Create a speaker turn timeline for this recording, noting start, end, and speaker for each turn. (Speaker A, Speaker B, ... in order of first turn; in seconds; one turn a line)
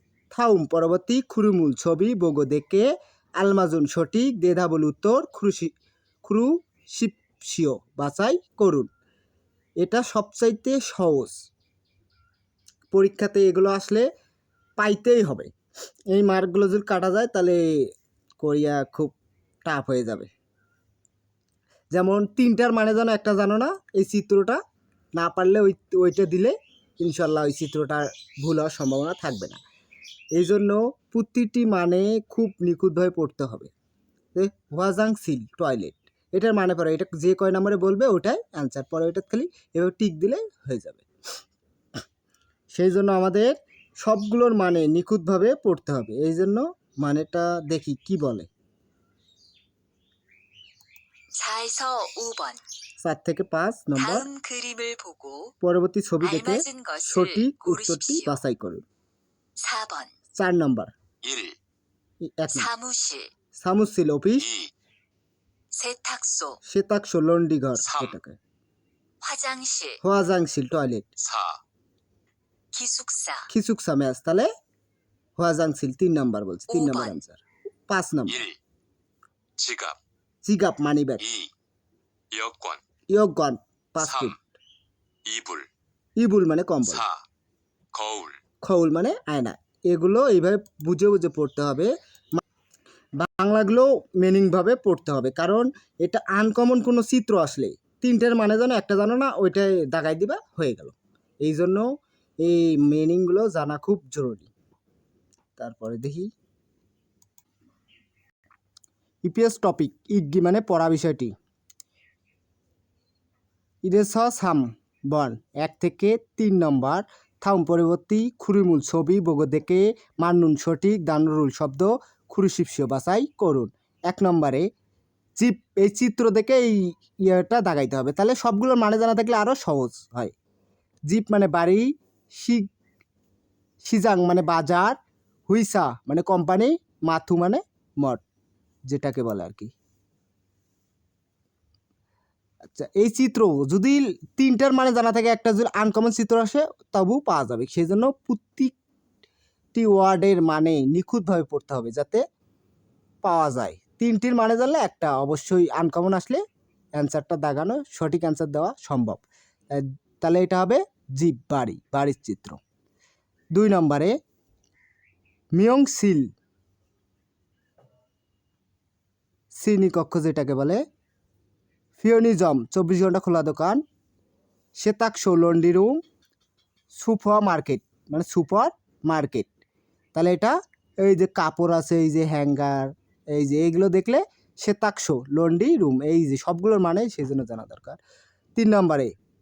Speaker A: 0.3-5.7
Speaker A: 6.2-8.9
Speaker A: 9.8-11.3
Speaker A: 12.9-14.1
Speaker A: 14.8-15.5
Speaker A: 16.1-20.3
Speaker A: 21.9-24.6
Speaker A: 25.1-29.6
Speaker A: 30.3-33.7
Speaker A: 34.3-41.0
Speaker A: 42.7-48.5
Speaker B: 51.3-52.6
Speaker A: 53.0-54.3
Speaker B: 54.0-55.5
Speaker A: 55.6-58.8
Speaker B: 56.2-58.4
Speaker B: 59.6-60.1
Speaker A: 60.3-60.9
Speaker C: 61.2-61.6
Speaker A: 62.2-62.7
Speaker B: 62.5-63.3
Speaker A: 63.5-64.5
Speaker C: 64.4-64.7
Speaker B: 65.7-66.6
Speaker A: 66.7-68.4
Speaker C: 67.8-68.1
Speaker B: 69.2-70.0
Speaker A: 70.0-71.1
Speaker C: 71.2-71.6
Speaker B: 72.7-73.5
Speaker A: 73.5-74.5
Speaker A: 75.4-78.5
Speaker B: 76.7-77.2
Speaker C: 78.3-78.5
Speaker C: 79.6-80.0
Speaker A: 80.5-81.2
Speaker C: 81.2-81.5
Speaker C: 82.3-82.8
Speaker A: 83.1-84.4
Speaker C: 84.0-84.3
Speaker C: 85.3-85.7
Speaker A: 86.2-87.0
Speaker C: 86.9-87.2
Speaker C: 87.9-88.4
Speaker A: 88.6-92.4
Speaker A: 93.2-101.9
Speaker A: 102.4-104.5
Speaker A: 105.6-106.3
Speaker A: 109.2-111.3
Speaker A: 113.8-124.7
Speaker A: 125.4-130.3
Speaker A: 131.1-132.7
Speaker A: 133.8-134.9
Speaker A: 135.5-138.2
Speaker A: 138.9-139.7
Speaker A: 142.7-148.8
Speaker A: 149.7-152.2
Speaker A: 153.2-156.4
Speaker A: 156.9-162.6
Speaker A: 163.5-164.1
Speaker A: 165.6-166.3
Speaker A: 169.5-170.8
Speaker A: 172.0-173.8
Speaker A: 174.8-176.0
Speaker A: 176.9-179.5
Speaker A: 180.1-188.0
Speaker A: 188.6-189.1